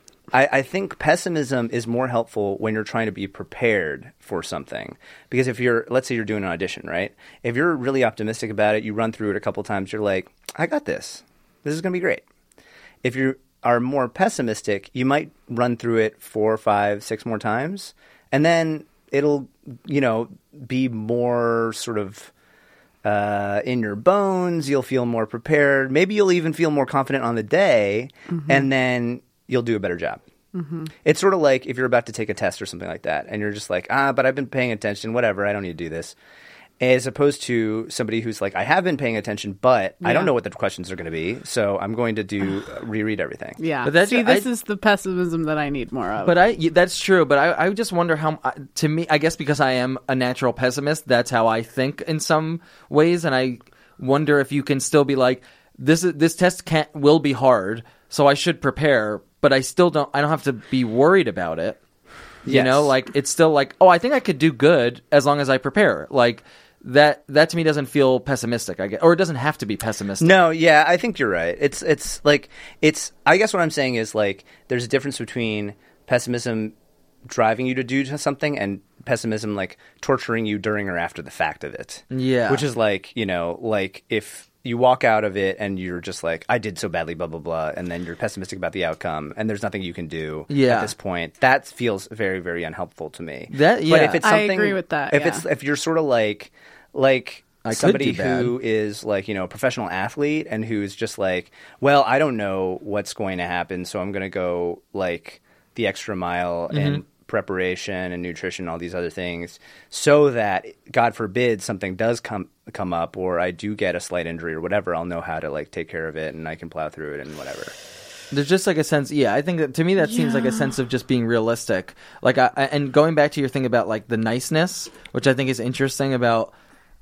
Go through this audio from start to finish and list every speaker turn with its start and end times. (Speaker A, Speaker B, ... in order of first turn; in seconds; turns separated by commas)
Speaker A: 0.3-12.2, Speaker A: 13.0-22.3, Speaker A: 23.0-30.2, Speaker B: 28.3-28.6, Speaker B: 30.5-30.9, Speaker A: 31.0-36.1, Speaker A: 36.8-43.6, Speaker B: 40.0-40.3, Speaker B: 43.6-46.4, Speaker C: 43.8-44.5, Speaker C: 46.2-61.8, Speaker A: 62.5-62.9, Speaker C: 62.5-70.4, Speaker A: 70.2-76.7, Speaker A: 77.3-117.7, Speaker C: 82.1-82.6, Speaker C: 90.5-90.9, Speaker C: 93.5-94.2, Speaker B: 94.2-95.5, Speaker C: 97.7-98.5, Speaker C: 106.7-107.0, Speaker C: 118.3-126.5, Speaker B: 120.1-120.7